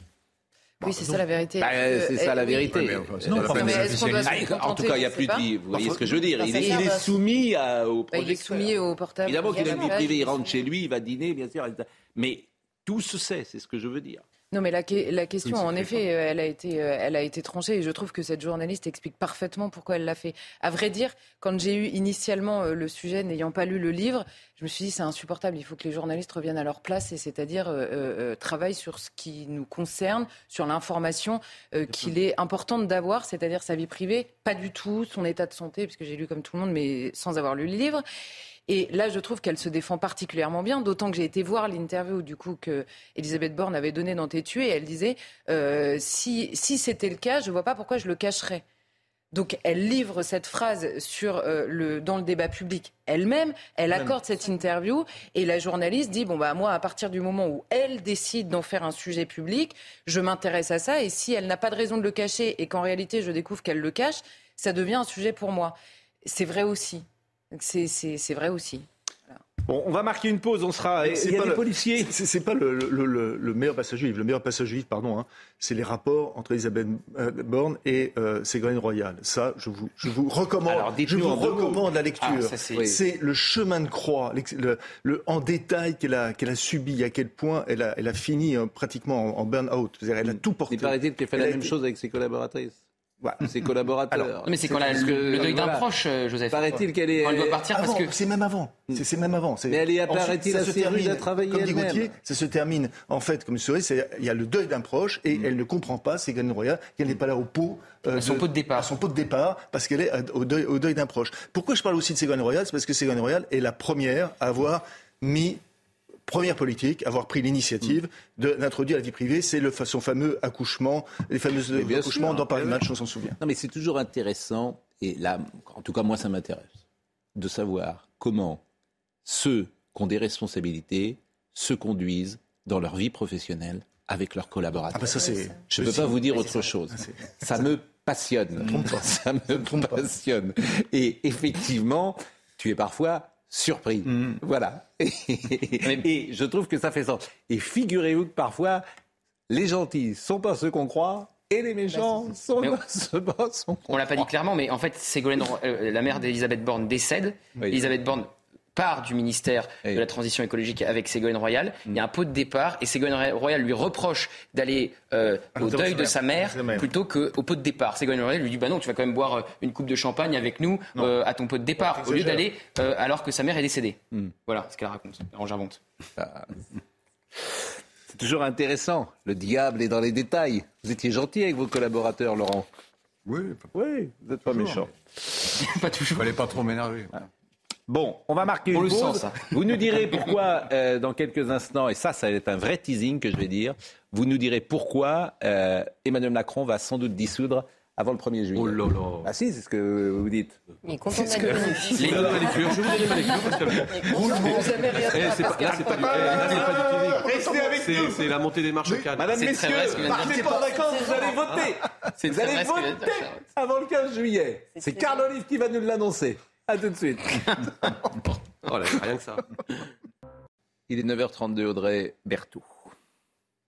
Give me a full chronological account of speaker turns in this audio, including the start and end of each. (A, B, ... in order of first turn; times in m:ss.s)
0:00.8-0:02.8 A
0:00.8-0:14.2 B
0:02.7-0:04.5 C
0:03.3-0:05.5 A
0:06.4-0:07.1 D
0:06.5-0:06.9 A
0:08.1-0:10.5 A
0:14.5-0:38.0 A
0:15.5-0:15.9 B
0:38.7-0:48.6 A
0:49.3-1:09.4 A
1:09.7-1:12.1 B
1:11.0-1:31.7 E
1:20.7-1:21.9 B
1:22.2-1:22.9 F
1:30.3-1:35.9 B
1:34.4-1:38.1 F
1:36.5-1:37.6 B
1:37.7-1:55.6 E
1:39.7-1:42.1 B
1:48.1-1:48.9 F
1:56.3-2:03.4 E
2:01.7-2:02.8 B
2:03.4-2:06.8 B
2:07.4-2:08.6 B
2:09.2-2:28.8 B
2:14.9-2:17.6 E
2:18.6-2:20.1 E
2:29.5-2:34.3 B
2:33.9-2:55.8 F
2:37.6-2:37.9 B
2:45.6-2:46.9 E
2:52.0-2:52.4 E
2:56.2-2:56.6 B
2:58.1-3:02.7 B
3:03.3-3:03.7 C
3:03.7-3:04.9 B
3:04.5-3:04.9 C
3:05.5-3:06.4 F
3:06.2-3:07.3 C
3:07.9-3:20.6 B
3:08.7-3:10.0 F
3:18.6-3:19.3 G
3:20.8-3:24.7 D
3:21.4-3:23.1 B
3:22.0-3:30.0 G
3:22.0-3:22.3 F
3:25.8-3:28.2 E
3:29.2-3:37.7 B
3:29.3-3:31.4 F
3:32.2-3:33.4 F
3:34.8-3:35.2 D
3:38.6-3:39.5 G
3:40.9-3:42.7 B